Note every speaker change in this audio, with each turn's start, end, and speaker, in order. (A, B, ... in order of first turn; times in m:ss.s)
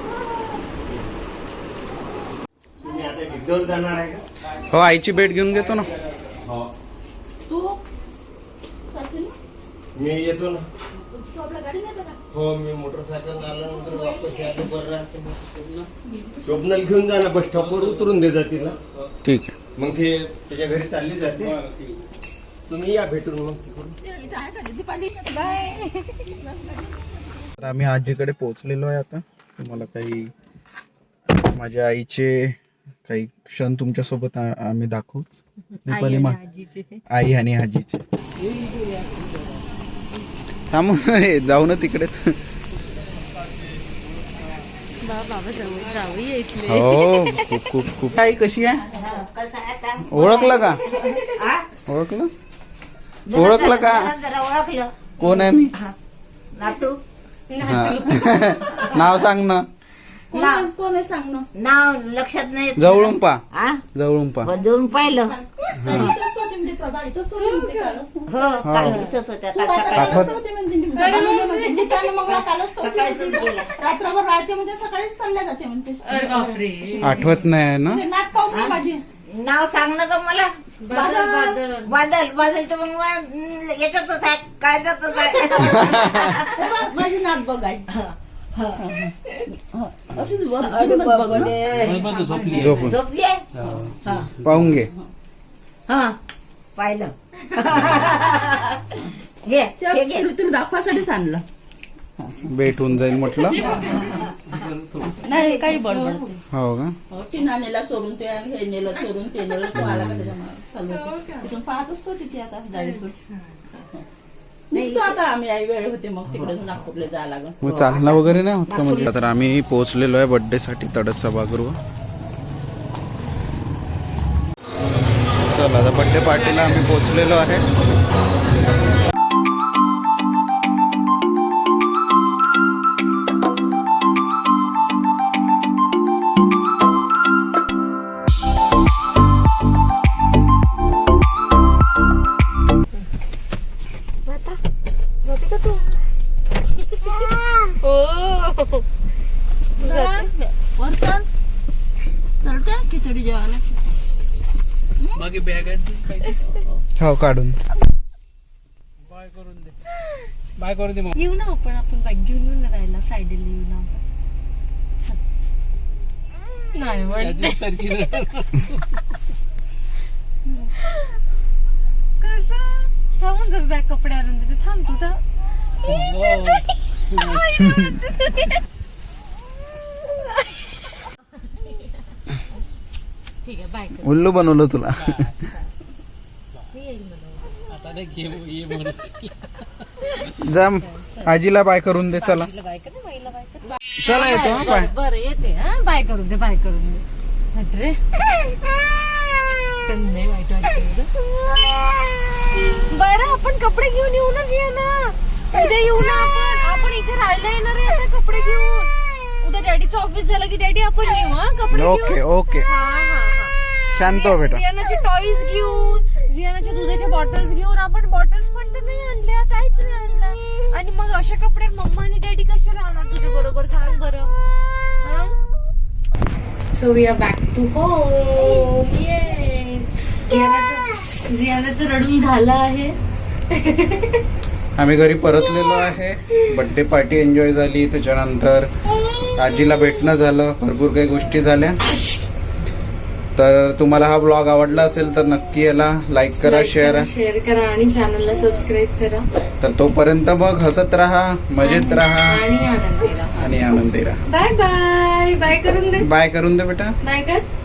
0:02.8-0:03.1 A
0:02.8-0:04.2 B
0:04.7-0:05.9 C
0:06.4-0:06.7 B
0:07.5-0:07.8 A
0:08.9-0:09.4 A
0:09.9-0:10.7 B
0:11.0-0:12.2 A
0:12.3-0:15.4 B
0:13.6-0:14.6 A
0:15.5-0:15.9 D
0:16.1-0:16.4 A
0:16.4-0:18.8 B
0:17.4-0:18.2 D
0:18.9-0:19.2 D
0:19.2-0:19.5 C
0:19.8-0:21.6 B
0:21.4-0:22.1 D
0:22.7-0:24.0 B
0:24.0-0:27.5 A
0:25.3-0:26.3 E
0:27.6-0:30.3 C
0:31.3-0:36.4 C
0:35.8-0:37.0 E
0:37.1-0:38.0 C
0:38.4-0:39.8 D
0:40.7-0:42.4 C
0:44.1-0:44.7 D
0:45.0-0:47.7 E
0:46.6-0:48.8 C
0:48.8-0:49.2 A
0:48.9-0:51.7 F
0:50.1-0:50.8 C
0:50.8-0:51.3 E
0:51.8-0:52.3 C
0:53.2-0:54.9 F
0:53.3-0:54.2 C
0:55.2-0:55.7 C
0:55.2-0:55.5 E
0:56.5-0:57.0 F
0:57.5-0:58.9 E
0:57.6-0:59.6 C
1:00.3-1:01.5 A
1:00.3-1:00.7 F
1:01.5-1:03.8 F
1:02.8-1:04.5 C
1:04.4-1:05.3 F
1:04.6-1:08.4 A
1:05.9-1:06.1 C
1:05.9-1:06.1 F
1:07.4-1:08.0 E
1:08.3-1:10.3 F
1:08.6-1:09.1 C
1:08.8-1:09.1 E
1:09.5-1:17.3 A
1:09.9-1:10.4 C
1:10.9-1:12.1 E
1:12.3-1:13.7 F
1:16.0-1:17.4 E
1:17.0-1:18.0 C
1:17.8-1:19.0 A
1:18.5-1:26.7 F
1:20.8-1:22.0 E
1:25.2-1:27.9 A
1:25.6-1:26.5 C
1:27.9-1:28.8 F
1:28.8-1:31.6 A
1:30.6-1:32.1 F
1:31.4-1:33.0 D
1:32.1-1:32.8 E
1:32.5-1:33.0 C
1:32.8-1:33.5 F
1:33.5-1:34.8 D
1:33.6-1:34.2 A
1:34.4-1:34.9 C
1:35.9-1:36.2 F
1:36.7-1:38.8 F
1:39.4-1:40.3 F
1:39.8-1:41.4 A
1:42.4-1:43.6 C
1:43.3-1:44.2 E
1:43.8-1:45.3 D
1:45.2-1:46.4 A
1:45.4-1:46.4 E
1:46.5-1:47.0 C
1:47.1-1:53.1 A
1:49.7-1:50.3 C
1:50.9-1:51.5 E
1:52.7-1:53.6 E
1:54.7-1:57.6 A
1:54.7-1:55.2 F
1:57.6-1:59.1 F
1:57.6-2:01.8 C
2:05.4-2:07.7 C
2:24.2-2:24.6 E
2:25.2-2:26.0 E
2:26.8-2:27.2 E
2:27.3-2:27.6 F
2:27.8-2:28.8 E
2:29.8-2:30.2 E
2:29.8-2:31.3 A
2:32.4-2:33.8 A
2:35.0-2:35.3 A
2:35.1-2:36.6 D
2:37.0-2:37.6 C
2:39.0-2:39.8 D
2:40.6-2:41.1 D
2:41.1-2:44.0 E
2:46.7-2:47.8 E
2:47.2-2:49.0 D
2:50.6-2:51.2 E
2:52.2-2:55.2 E
2:55.8-2:57.5 D
2:56.4-2:56.6 E
2:57.2-2:58.6 E
3:00.0-3:00.6 E
3:03.4-3:04.1 E
3:04.0-3:05.3 C
3:05.0-3:05.3 D
3:06.7-3:07.6 E
3:07.7-3:09.8 D
3:10.4-3:12.5 C
3:10.8-3:11.2 E
3:12.1-3:18.0 E
3:14.0-3:14.9 C
3:19.8-3:21.8 E
3:22.8-3:44.3 E
3:31.7-3:32.7 C
3:33.9-3:34.6 C
3:45.0-3:45.3 E
3:46.7-3:53.0 E
3:53.5-3:54.2 E
3:54.8-3:58.7 C
3:59.4-4:01.8 C
4:01.8-4:02.3 E
4:03.4-4:07.1 C
4:06.4-4:09.3 E
4:09.6-4:12.4 C
4:11.6-4:13.4 E
4:13.3-4:14.2 C
4:14.3-4:16.1 E
4:16.0-4:17.0 C
4:17.0-4:17.4 E